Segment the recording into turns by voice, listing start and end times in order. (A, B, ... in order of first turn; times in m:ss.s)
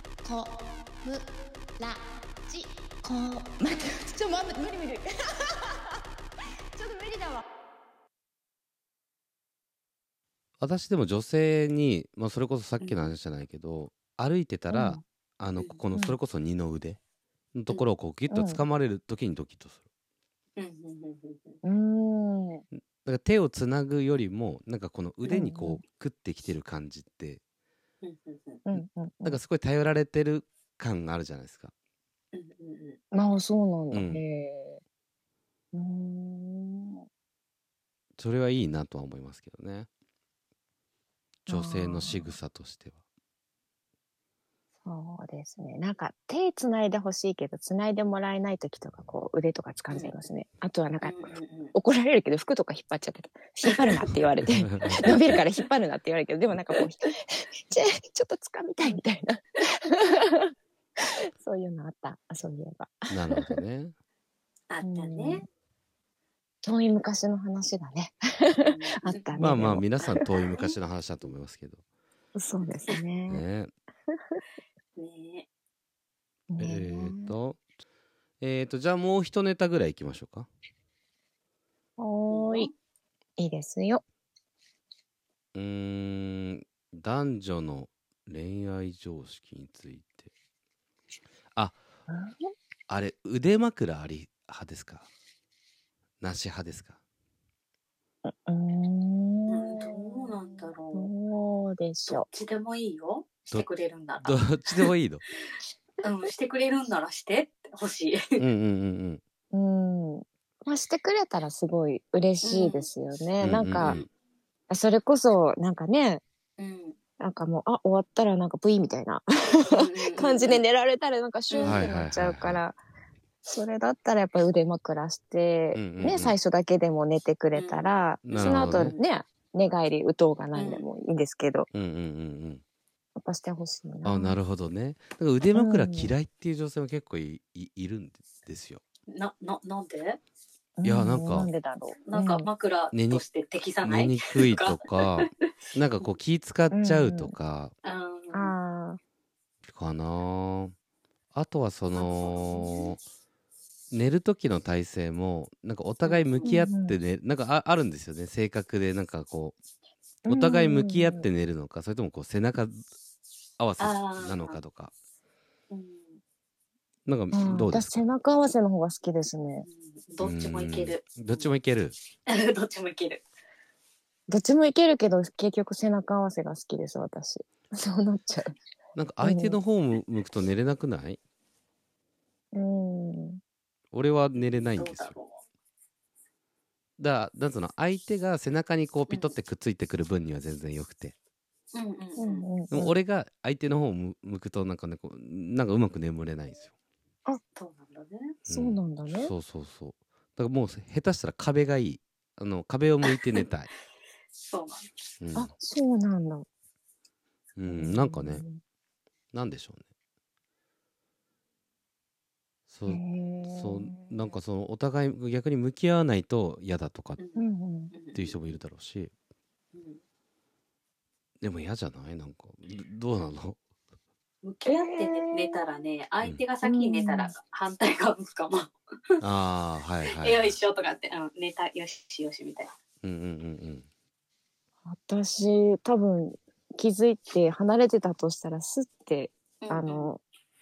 0:00.2-0:01.3 A
0:01.8-0:05.6 A
0:06.7-0:07.4 A
0:10.6-0:17.0 B
0:12.8-0:13.1 C
0:14.7-0:15.0 A
0:17.5-0:19.8 B
0:18.3-0:18.6 A
0:20.6-0:21.6 C
0:21.6-0:22.6 A
0:22.9-0:27.4 B
0:25.3-0:25.8 A
0:28.0-0:28.6 C
0:28.6-0:29.4 A
0:28.7-0:31.7 B
0:32.3-0:33.0 C
0:33.1-0:34.8 A
0:33.9-0:34.2 B
0:35.7-0:37.0 A
0:38.2-0:39.9 B
0:41.5-0:42.3 A
0:41.5-0:43.0 B
0:44.8-1:00.5 A
0:51.0-0:51.7 C
0:53.7-0:54.1 C
0:54.6-0:55.1 B
0:54.8-0:55.6 C
1:01.4-1:03.5 A
1:03.1-1:03.9 B
1:04.7-1:05.4 C
1:04.8-1:05.4 A
1:06.6-1:10.5 A
1:08.5-1:09.3 C
1:09.4-1:11.8 B
1:10.2-1:10.8 C
1:12.3-1:13.4 A
1:13.3-1:13.7 B
1:15.0-1:15.5 C
1:16.5-1:17.3 A
1:16.6-1:17.6 B
1:18.4-1:20.5 B
1:22.0-1:22.7 A
1:22.3-1:22.7 C
1:23.4-1:24.0 A
1:25.5-1:30.3 B
1:32.1-1:32.5 A
1:32.9-1:35.1 B
1:36.2-1:37.0 B
1:38.2-1:42.3 A
1:39.5-1:41.1 C
1:42.1-1:44.9 C
1:44.2-1:45.2 B
1:46.0-1:48.4 C
1:48.4-1:49.2 B
1:49.5-1:54.0 A
1:52.4-1:52.9 C
1:53.4-1:54.0 B
1:54.7-1:56.2 A
1:56.6-1:57.0 C
1:57.2-2:02.8 A
1:59.7-2:00.6 C
2:01.5-2:01.9 C
2:01.6-2:02.6 B
2:03.4-2:11.7 A
2:05.7-2:06.4 B
2:07.5-2:09.0 C
2:08.2-2:08.9 B
2:10.5-2:10.8 C
2:11.7-2:12.6 B
2:13.2-2:14.4 A
2:14.0-2:18.8 B
2:15.5-2:16.1 A
2:19.1-2:20.2 C
2:20.8-2:22.5 A
2:20.8-2:21.5 B
2:22.0-2:25.2 C
2:22.9-2:23.2 B
2:23.8-2:27.7 B
2:26.7-2:27.3 A
2:27.8-2:28.5 C
2:28.3-2:29.0 A
2:29.7-2:30.7 B
2:31.3-2:33.0 B
2:31.9-2:32.9 C
2:33.9-2:39.6 B
2:36.0-2:36.5 C
2:36.4-2:37.0 A
2:40.2-2:41.2 A
2:40.3-2:42.8 B
2:43.6-2:44.9 B
2:43.8-2:44.6 C
2:45.7-2:46.2 C
2:47.0-2:48.1 B
2:47.3-2:49.6 A
2:49.6-2:51.5 C
2:50.2-2:52.0 B
2:52.3-2:53.2 C
2:54.3-2:58.5 A
2:58.9-3:01.2 B
2:59.2-2:59.6 A
3:02.5-3:03.4 A
3:03.9-3:05.2 B
3:04.4-3:05.4 C
3:07.0-3:11.2 B
3:09.1-3:09.4 C
3:11.7-3:12.4 C
3:12.2-3:12.9 A
3:12.7-3:16.7 B
3:17.6-3:18.3 C
3:18.5-3:23.7 B
3:18.5-3:19.3 A
3:24.4-3:24.9 C
3:25.2-3:25.5 B
3:25.3-3:26.5 A
3:27.6-3:28.4 B
3:27.7-3:28.6 A
3:29.3-3:29.8 B
3:32.7-3:37.2 B
3:32.9-3:34.3 A
3:37.2-3:38.6 C
3:37.4-3:37.9 A
3:38.1-3:39.1 B
3:39.7-3:40.0 C
3:41.4-3:43.6 B
3:44.4-3:48.7 C
3:44.6-3:45.6 A
3:46.6-3:47.3 A
3:49.2-3:50.6 B
3:50.0-3:52.7 C
3:53.0-3:53.9 B
3:54.8-4:00.2 A
3:59.6-4:00.1 C